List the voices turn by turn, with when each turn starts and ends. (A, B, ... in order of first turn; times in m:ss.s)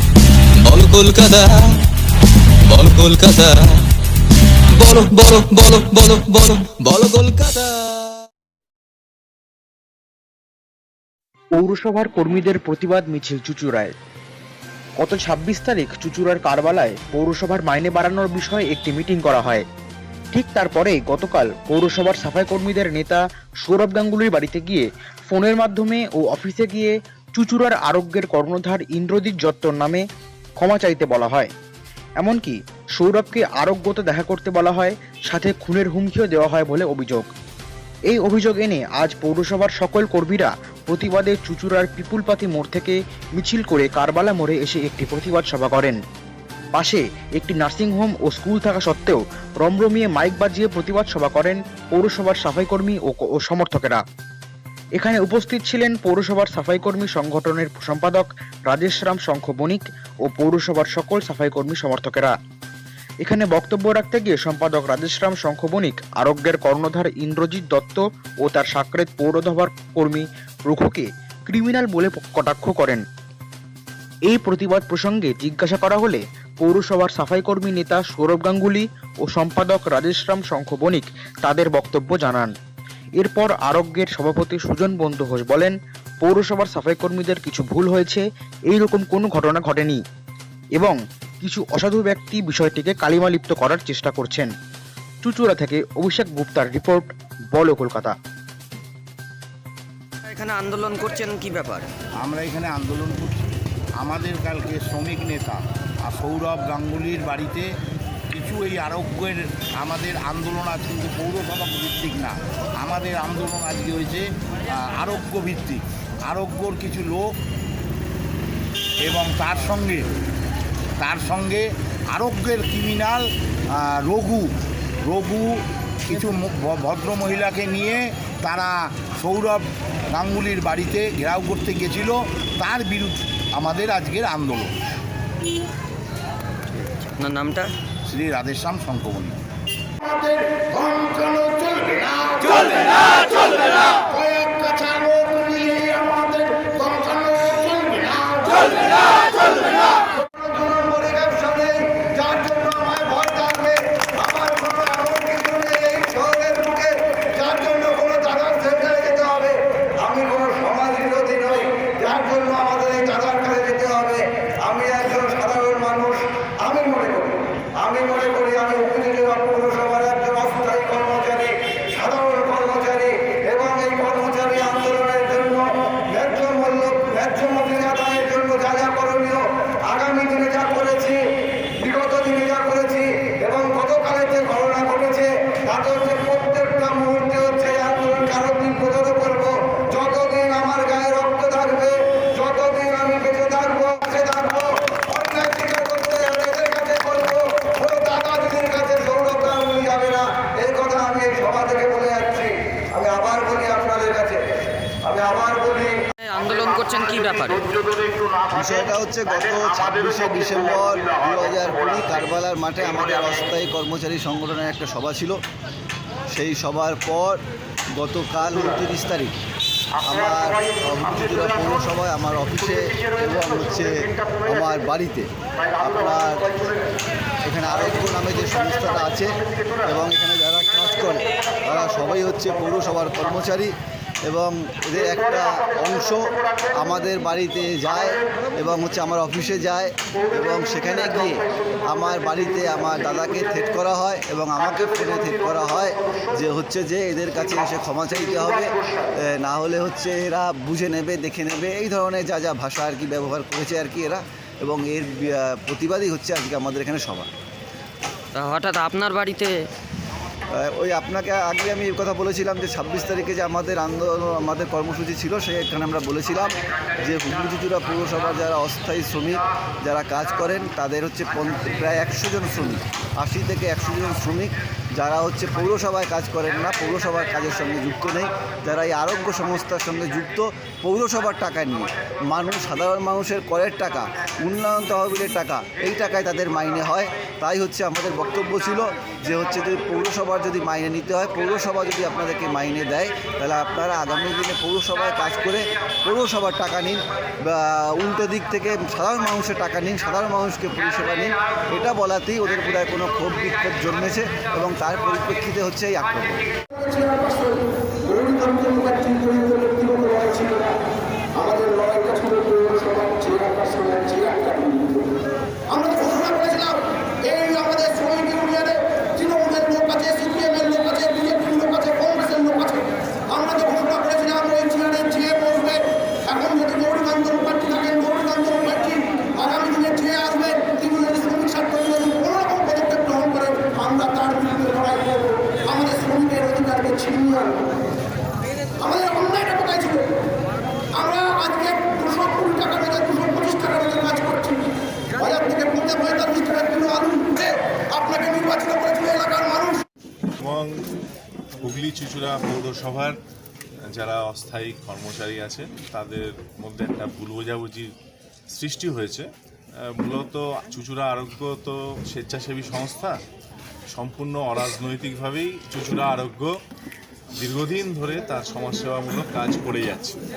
0:00.6-0:01.5 A
0:02.7-0:03.6 A
0:04.8-0:07.7 A
0:11.5-0:13.9 B
0:15.0-0:19.6 B
0:20.3-0:30.0 B
0:30.6-0:31.5 B
0:32.2-0:37.2 B
0:38.1-0:46.0 B
0:46.7-0:54.0 B
0:55.0-1:02.3 B
1:03.2-1:13.0 B
1:14.3-1:22.5 B
1:23.2-1:30.0 B
1:30.8-1:34.5 B
1:35.2-1:38.1 B
1:40.2-1:41.8 C
1:42.2-1:47.7 D
1:48.3-1:57.3 D
1:59.0-2:00.0 D
2:01.0-2:04.5 D
2:05.0-2:05.5 D
2:06.0-2:14.7 D
2:16.7-2:17.7 C
2:18.1-2:19.4 D
2:20.0-2:30.0 E
2:30.3-3:01.2 F
3:01.8-3:24.4 F
3:25.0-3:25.9 F
3:26.2-3:27.7 C
3:28.5-3:35.4 G
3:36.3-3:37.4 G
3:37.9-3:39.3 G
3:40.0-3:45.3 G
3:45.8-3:46.8 G
3:47.4-3:53.7 G
3:54.2-4:17.3 G
4:18.3-4:19.6 C
4:20.6-5:06.4 G
5:06.8-5:10.7 E
5:11.4-5:15.1 E
5:15.7-5:37.7 E
5:38.8-5:40.1 E
5:41.0-5:44.6 E
5:45.2-5:49.8 E
5:50.4-5:50.7 H
5:51.6-5:53.1 H
5:53.9-5:57.9 H
5:58.5-5:59.3 H
6:00.0-6:03.2 H
6:03.9-6:06.5 H
6:07.4-6:10.2 H